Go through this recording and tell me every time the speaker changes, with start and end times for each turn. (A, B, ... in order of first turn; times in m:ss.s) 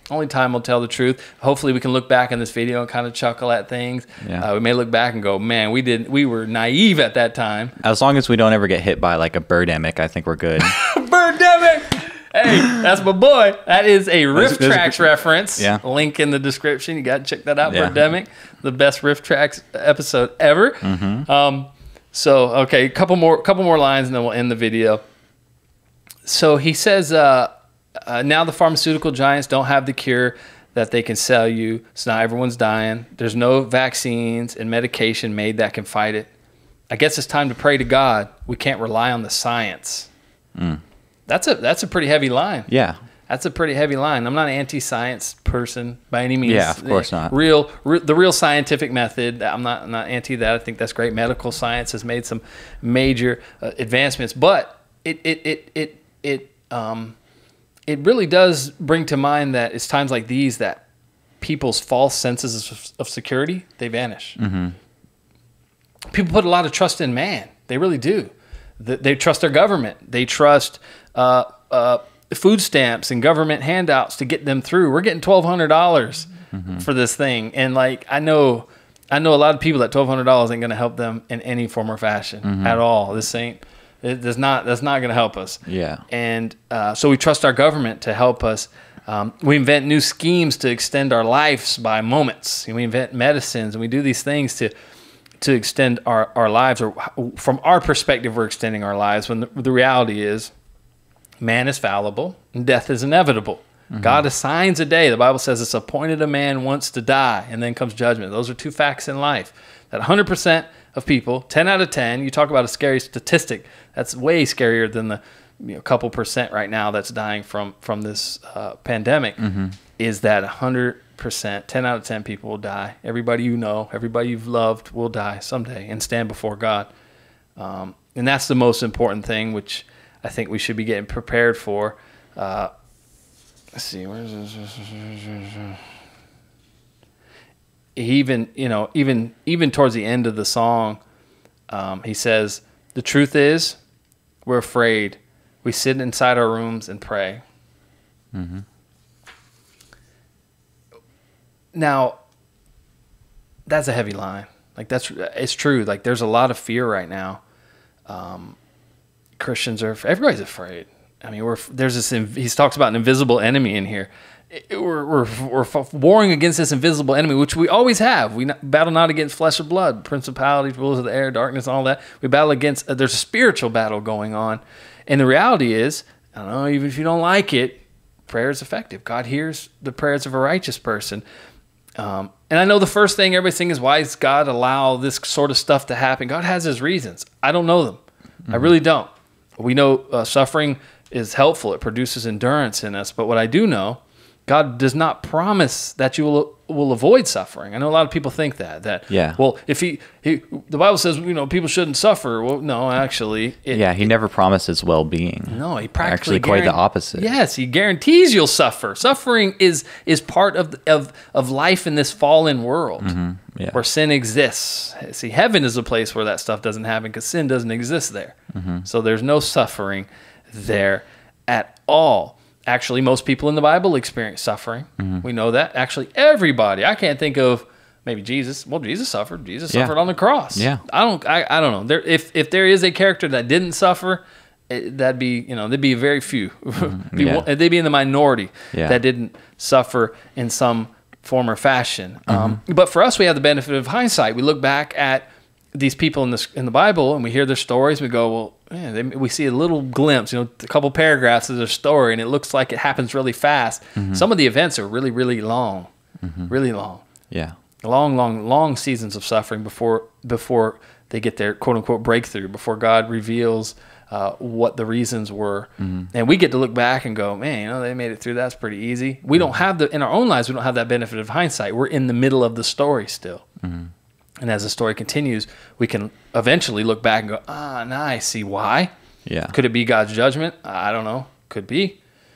0:00.1-0:07.8 A
0:04.2-0:04.5 B
0:07.8-0:10.8 B
0:10.6-0:25.0 A
0:14.4-0:15.8 B
0:17.6-0:18.1 B
0:20.8-0:21.2 B
0:26.2-0:27.5 A
0:28.0-0:36.3 A
0:36.9-0:40.1 A
0:40.5-0:40.8 B
0:41.3-0:42.7 A
0:42.7-0:43.0 B
0:43.3-0:57.2 A
0:46.4-0:47.3 B
0:57.9-1:00.8 A
1:01.4-1:04.4 A
1:04.4-1:04.8 B
1:06.1-1:34.7 A
1:16.5-1:16.8 B
1:22.4-1:22.8 B
1:25.6-1:26.0 B
1:35.4-1:40.5 A
1:41.4-1:59.4 A
1:43.9-1:44.2 B
1:59.4-1:59.7 B
2:00.0-2:06.9 A
2:07.6-2:12.7 A
2:13.7-2:15.8 A
2:18.0-2:21.0 A
2:21.7-2:23.8 A
2:24.4-2:27.4 A
2:28.3-2:28.6 B
2:31.7-2:32.2 A
2:33.7-2:37.4 A
2:38.1-2:38.6 A
2:39.4-3:01.2 A
3:02.0-3:24.1 A
3:19.1-3:19.4 B
3:23.7-3:27.3 B
3:25.5-3:33.1 A
3:33.0-3:33.8 B
3:33.7-4:15.9 A
3:38.5-3:38.8 B
3:45.0-3:45.2 B
3:49.7-3:50.0 B
3:50.5-3:50.8 B
3:56.8-3:57.4 B
3:58.7-3:59.0 B
4:02.3-4:02.6 B
4:14.0-4:14.2 B
4:16.2-4:16.5 B
4:16.5-4:17.0 A
4:17.8-4:33.4 A
4:25.8-4:26.1 B
4:33.6-4:33.9 B
4:34.4-4:38.9 A
4:39.2-4:39.5 B
4:39.5-4:42.0 A